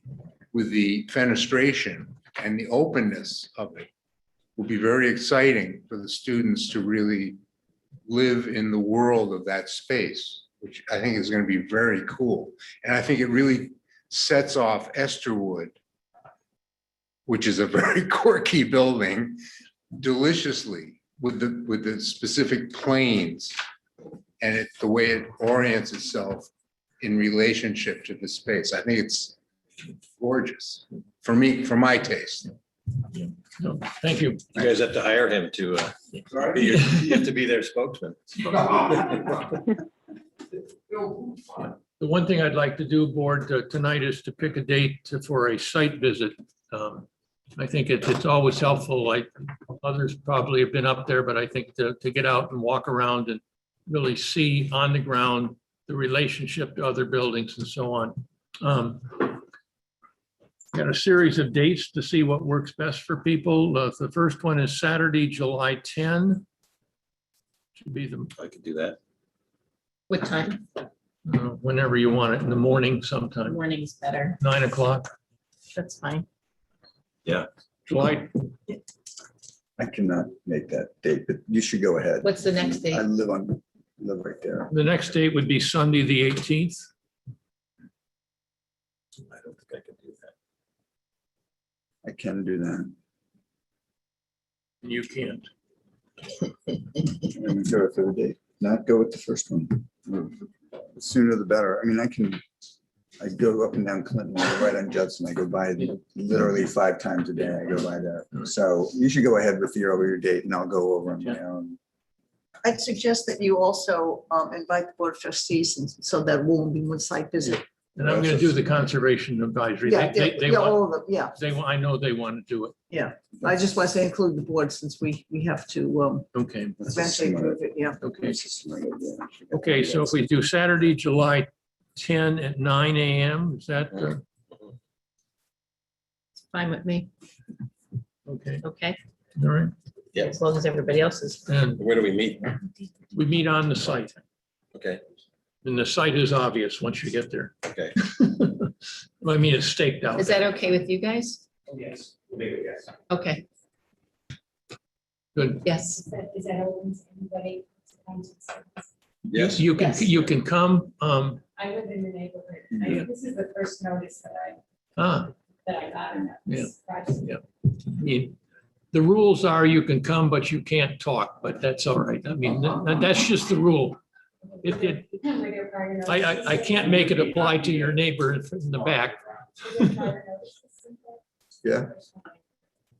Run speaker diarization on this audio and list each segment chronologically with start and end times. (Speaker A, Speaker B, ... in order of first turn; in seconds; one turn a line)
Speaker A: 0.5-3.9
Speaker A: 4.5-7.4
Speaker A: 8.1-15.8
Speaker A: 17.3-19.4
Speaker A: 19.9-23.6
Speaker A: 24.4-29.4
Speaker A: 30.1-32.5
Speaker B: 33.1-34.5
Speaker C: 34.5-39.5
Speaker B: 42.0-59.4
Speaker B: 60.7-66.4
Speaker B: 67.7-68.3
Speaker C: 68.4-69.0
Speaker D: 70.1-70.6
Speaker B: 71.2-73.6
Speaker D: 73.4-74.4
Speaker B: 74.4-75.1
Speaker D: 75.7-76.3
Speaker B: 77.8-78.3
Speaker E: 79.8-84.7
Speaker D: 82.2-83.0
Speaker B: 84.7-86.9
Speaker C: 89.3-90.3
Speaker E: 92.0-92.9
Speaker B: 94.8-95.5
Speaker E: 97.2-102.4
Speaker E: 103.2-111.8
Speaker F: 112.6-117.6
Speaker B: 118.0-122.7
Speaker E: 118.0-118.9
Speaker F: 119.8-121.3
Speaker F: 122.9-126.3
Speaker B: 126.3-126.8
Speaker E: 126.8-130.2
Speaker F: 126.9-128.0
Speaker B: 128.0-128.3
Speaker B: 129.5-134.2
Speaker C: 133.9-134.7
Speaker D: 136.4-137.1
Speaker B: 138.2-138.6
Speaker D: 138.6-139.0
Speaker B: 139.4-139.7
Speaker D: 140.2-141.4
Speaker B: 141.5-141.8
Speaker C: 141.8-142.6
Speaker B: 143.1-144.2
Speaker C: 144.7-145.0
Speaker B: 145.6-150.6
Speaker C: 147.7-147.9
Speaker D: 150.2-151.4
Speaker G: 151.7-152.9
Speaker D: 153.1-153.4
Speaker B: 155.3-155.6
Speaker D: 155.6-156.0
Speaker H: 156.0-158.9
Speaker C: 159.3-159.8
Speaker B: 159.3-161.4
Speaker D: 159.7-160.1
Speaker H: 161.6-164.6
Speaker B: 165.0-165.3
Speaker H: 165.7-167.2
Speaker B: 166.4-168.3
Speaker B: 168.9-174.0
Speaker B: 174.6-175.1
Speaker H: 174.7-176.7
Speaker B: 176.1-179.2
Speaker G: 176.8-178.0
Speaker G: 178.7-179.1
Speaker H: 179.6-181.2
Speaker B: 179.8-180.1
Speaker E: 181.6-181.9
Speaker H: 181.9-182.3